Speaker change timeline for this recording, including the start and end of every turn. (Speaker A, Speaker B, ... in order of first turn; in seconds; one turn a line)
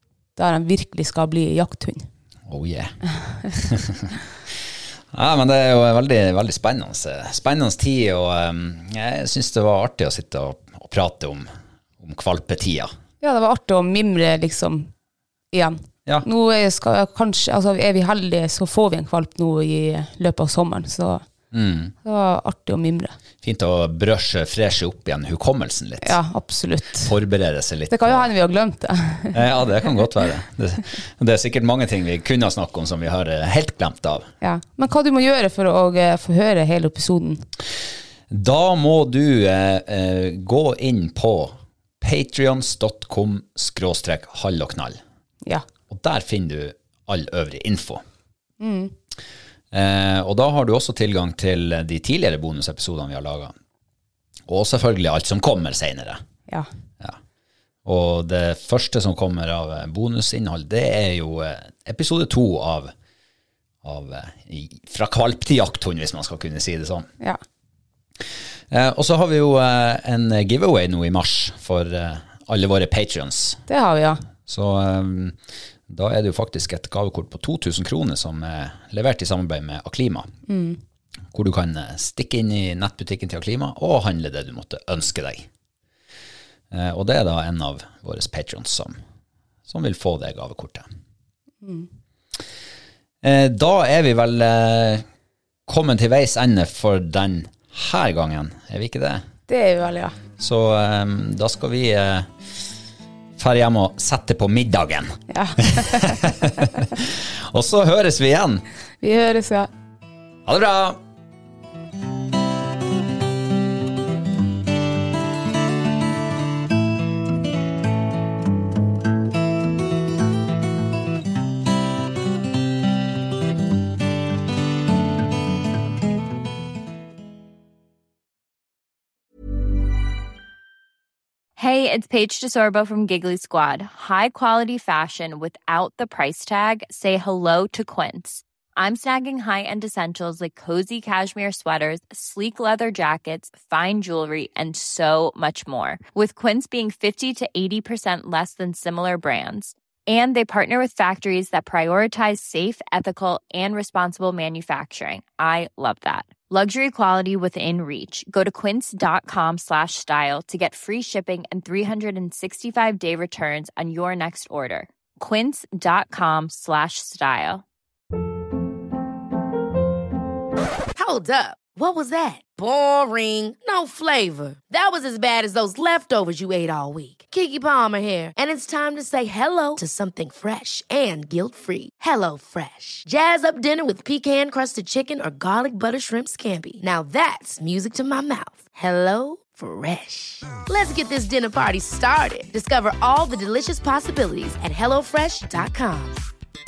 Speaker A: 0.3-2.1
Speaker B: 2.5-2.9
Speaker B: 3.5-4.1
Speaker B: 5.1-11.5
Speaker B: 12.0-12.9
Speaker A: 13.2-14.9
Speaker A: 15.5-21.2
Speaker B: 21.5-21.9
Speaker A: 22.0-23.1
Speaker B: 23.4-26.2
Speaker A: 26.0-27.1
Speaker B: 27.0-28.3
Speaker A: 27.9-29.4
Speaker B: 29.3-34.3
Speaker A: 34.4-37.4
Speaker B: 38.3-45.0
Speaker B: 45.9-48.0
Speaker A: 48.6-48.9
Speaker B: 49.7-53.5
Speaker B: 54.5-56.2
Speaker B: 57.8-62.9
Speaker B: 63.8-67.1
Speaker B: 68.7-73.6
Speaker A: 73.7-74.2
Speaker B: 74.5-75.3
Speaker B: 75.9-80.3
Speaker A: 80.5-80.8
Speaker B: 81.3-85.5
Speaker B: 86.7-89.0
Speaker B: 89.7-90.8
Speaker A: 91.6-91.9
Speaker B: 93.2-95.0
Speaker B: 95.7-99.2
Speaker A: 99.5-100.2
Speaker B: 100.4-102.3
Speaker B: 103.4-108.6
Speaker A: 105.3-105.6
Speaker A: 109.0-109.7
Speaker B: 110.5-111.0
Speaker C: 131.6-167.6
Speaker D: 170.9-196.2